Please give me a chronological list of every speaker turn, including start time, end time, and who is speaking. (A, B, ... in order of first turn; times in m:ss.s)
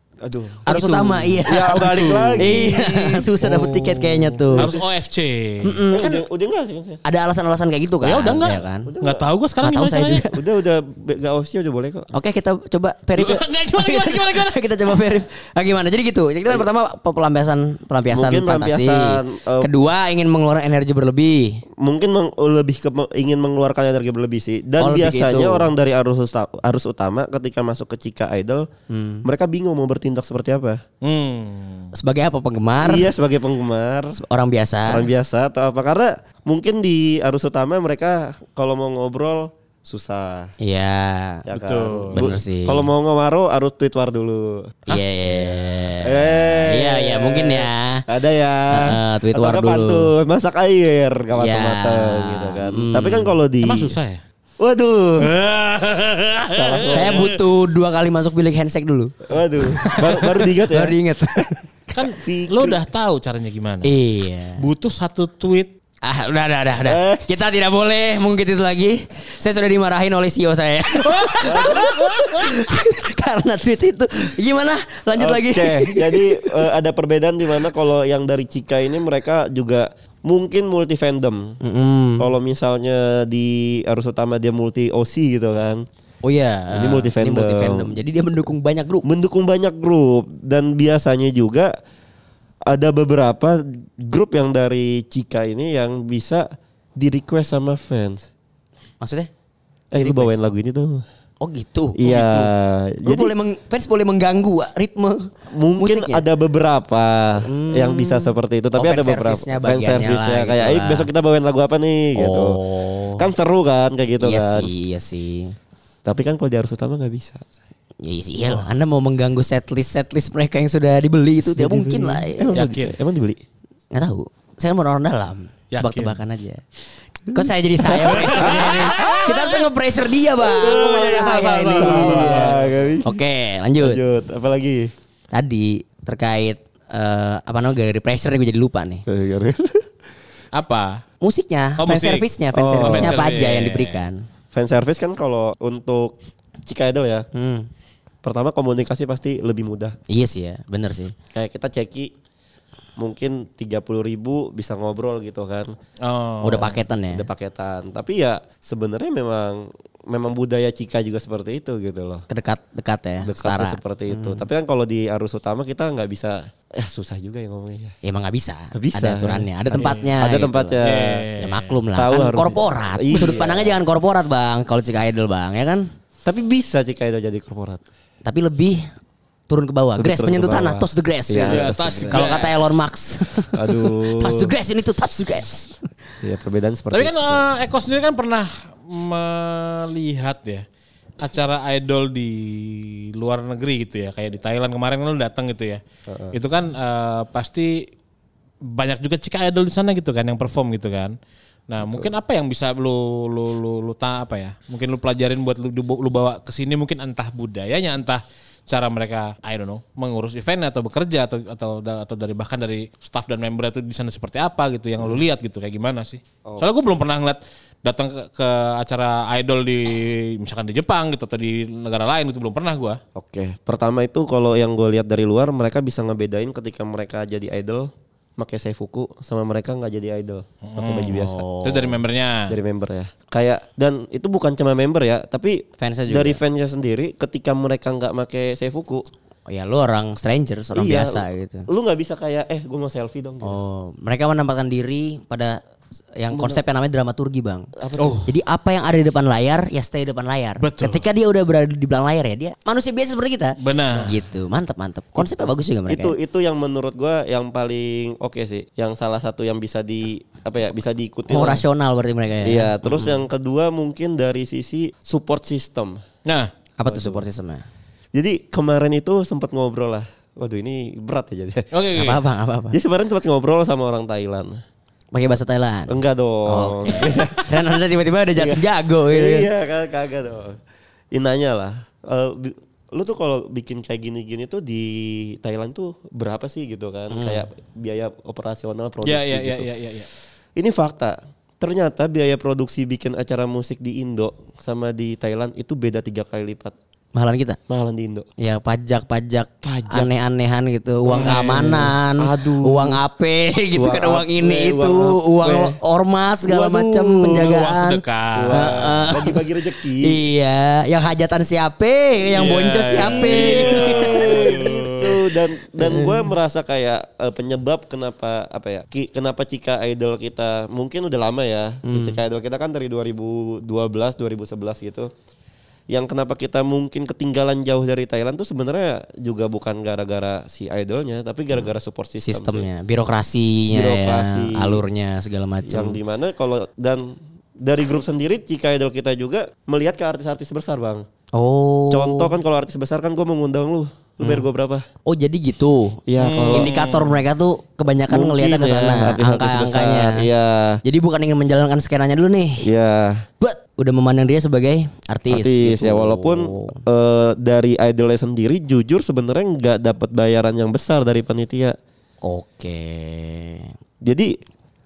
0:00.2-0:03.3 A
0:00.6-0:04.7 B
0:00.7-0:01.4 C
0:02.4-0:02.6 C
0:03.4-0:05.8 C
0:04.5-0:04.8 A
0:05.6-0:06.2 B
0:05.9-0:07.0 A
0:07.0-0:08.9 B
0:08.0-0:10.2 C
0:08.8-0:09.2 A
0:09.6-0:10.4 B
0:10.3-0:12.1 A
0:12.1-0:21.6 B
0:13.2-0:14.5 C
0:18.1-0:19.7 A
0:21.8-0:28.7 A
0:24.8-0:25.7 B
0:28.9-0:29.3 B
0:29.2-0:30.8 A
0:31.0-0:31.9 C
0:31.9-0:33.1 B
0:32.8-0:34.2 A
0:34.2-0:35.1 B
0:34.9-0:40.5 A
0:40.6-0:41.4 B
0:41.5-0:53.9 A
0:41.5-0:42.3 C
0:42.1-0:42.9 B
0:44.9-0:48.0 B
0:48.7-0:50.1 B
0:51.4-0:53.3 B
0:53.6-0:54.2 C
0:54.6-0:55.3 A
0:55.2-0:57.3 C
0:56.5-0:57.3 A
0:56.8-0:59.1 B
0:59.3-1:01.0 A
0:59.7-1:01.6 B
1:01.9-1:03.9 C
1:02.1-1:02.8 A
1:03.8-1:04.6 B
1:04.6-1:05.7 C
1:06.0-1:16.5 B
1:06.8-1:07.2 A
1:11.0-1:12.5 C
1:11.4-1:11.9 A
1:15.2-1:21.6 A
1:21.6-1:22.3 B
1:22.2-1:25.8 A
1:26.2-1:29.0 B
1:26.7-1:27.9 A
1:29.0-1:31.7 A
1:32.7-1:38.3 A
1:39.0-1:39.3 B
1:39.9-1:41.0 A
1:39.9-1:40.4 B
1:41.4-1:42.4 B
1:42.0-1:43.3 A
1:43.0-1:46.2 B
1:45.5-1:52.6 A
1:47.4-1:51.1 B
1:52.2-1:53.3 B
1:53.2-1:54.7 A
1:54.2-1:55.5 B
1:56.0-1:57.4 A
1:58.0-2:02.5 B
2:01.4-2:03.4 A
2:02.5-2:03.0 C
2:03.9-2:06.6 B
2:05.7-2:06.2 C
2:07.3-2:14.0 B
2:08.0-2:09.1 A
2:08.1-2:09.6 C
2:10.4-2:12.7 C
2:10.7-2:13.2 A
2:13.8-2:14.9 A
2:15.3-2:19.0 B
2:19.1-2:19.8 A
2:20.5-2:21.0 C
2:21.2-2:24.2 B
2:21.8-2:24.0 C
2:22.5-2:23.2 A
2:24.5-2:27.3 A
2:27.3-2:27.7 B
2:28.2-2:30.0 A
2:30.1-2:31.1 B
2:31.3-2:32.1 A
2:33.0-2:35.7 A
2:36.0-2:36.8 C
2:36.4-2:37.3 B
2:37.1-2:42.2 A
2:42.3-2:44.4 B
2:43.2-2:48.0 A
2:48.0-2:50.8 B
2:48.7-2:51.2 A
2:49.7-2:50.1 C
2:50.8-2:51.8 C
2:51.4-2:55.8 B
2:51.9-2:53.8 A
2:56.2-2:57.8 A
2:58.2-2:58.8 B
2:59.5-3:05.7 B
3:00.0-3:02.4 A
3:01.4-3:02.7 C
3:03.5-3:04.5 A
3:06.2-3:07.4 A
3:06.9-3:10.6 C
3:11.2-3:15.8 C
3:16.1-3:16.4 A
3:16.3-3:17.8 C
3:18.6-3:21.1 C
3:21.7-3:43.0 C
3:43.2-3:51.4 A
3:50.6-3:52.5 C
3:51.1-3:52.0 B
3:52.5-3:59.0 A
3:55.8-3:56.4 B
3:59.5-4:01.7 B
4:00.7-4:03.6 A
4:03.4-4:05.6 B
4:06.2-4:07.7 B
4:06.3-4:06.6 A
4:07.8-4:08.2 A
4:08.0-4:08.3 C
4:08.2-4:16.1 B
4:10.6-4:11.0 C
4:13.6-4:14.1 C
4:15.2-4:21.6 A
4:21.3-4:23.2 B
4:22.4-4:26.0 A
4:26.8-4:27.6 B
4:26.9-4:27.2 A
4:28.1-4:31.7 A
4:31.7-4:32.2 C
4:31.9-4:32.8 B
4:32.7-4:34.6 A
4:35.1-4:39.5 B
4:35.9-4:37.6 A
4:38.4-4:40.6 A
4:41.1-4:49.7 A
4:47.1-4:47.4 B
4:49.0-4:50.1 C
4:50.6-4:56.7 A
4:57.1-4:57.6 B
4:57.7-4:58.3 A
4:58.4-5:08.0 B
4:59.6-5:00.1 A
5:01.1-5:01.9 C
5:01.1-5:03.0 A
5:03.7-5:05.8 A
5:06.4-5:07.5 A
5:07.3-5:08.7 C
5:08.3-5:10.1 A
5:08.5-5:09.4 B
5:10.0-5:14.6 B
5:12.3-5:15.2 C
5:12.9-5:25.1 A
5:15.8-5:16.3 B
5:21.8-5:22.2 B
5:25.9-5:32.7 A
5:32.2-5:36.0 B
5:33.7-5:34.8 A
5:35.7-5:41.0 A
5:41.3-5:42.3 B
5:41.9-5:44.8 A
5:45.0-5:46.0 B
5:46.1-5:46.7 A
5:46.2-5:47.2 C
5:46.5-5:50.3 B
5:48.1-5:50.8 A
5:50.8-5:52.7 B
5:52.6-5:53.2 A
5:53.4-5:56.8 B
5:55.3-6:01.8 A
6:02.2-6:03.7 B
6:04.0-6:04.3 A